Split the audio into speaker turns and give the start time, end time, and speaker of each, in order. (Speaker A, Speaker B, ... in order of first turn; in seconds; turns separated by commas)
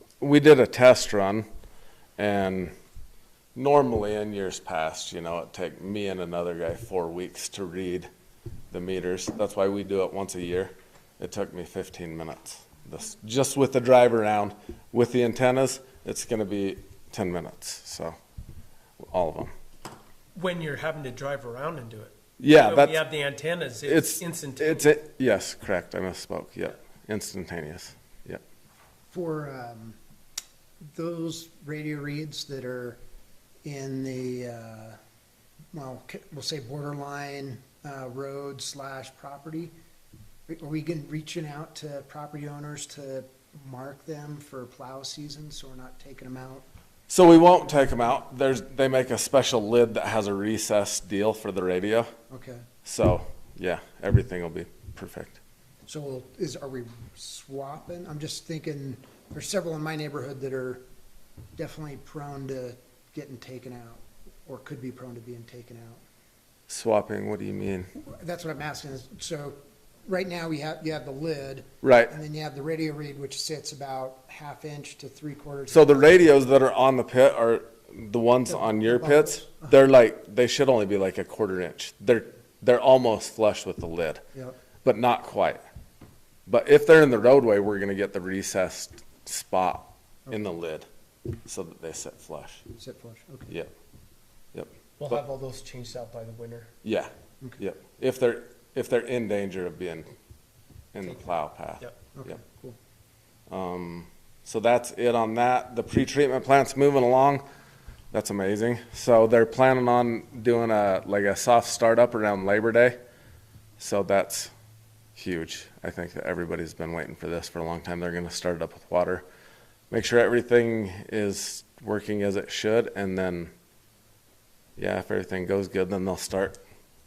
Speaker A: 0.2-1.4, Speaker A: 2.2-2.7, Speaker A: 3.5-8.1, Speaker A: 8.7-18.1, Speaker A: 19.0-19.5, Speaker B: 20.3-24.9, Speaker A: 22.4-23.0, Speaker A: 23.9-28.4, Speaker C: 29.1-30.0, Speaker C: 30.9-33.0, Speaker C: 33.6-35.0, Speaker C: 35.7-39.7, Speaker C: 40.5-46.6, Speaker A: 47.1-52.1, Speaker C: 52.3-52.6, Speaker A: 52.8-55.4, Speaker C: 55.9-60.8, Speaker C: 61.6-66.0, Speaker A: 66.7-67.9, Speaker C: 68.0-76.3, Speaker A: 71.8-72.2, Speaker A: 75.7-84.2, Speaker C: 78.5-79.7, Speaker A: 84.8-85.6, Speaker A: 86.5-90.8, Speaker A: 91.4-92.6, Speaker C: 92.7-93.5, Speaker B: 95.0-96.7, Speaker A: 96.8-100.1, Speaker A: 100.9-102.4, Speaker C: 102.1-102.8, Speaker A: 103.5-107.4, Speaker A: 108.1-113.0, Speaker A: 113.8-114.5, Speaker A: 115.2-119.2, Speaker A: 119.9-123.5, Speaker A: 124.8-126.6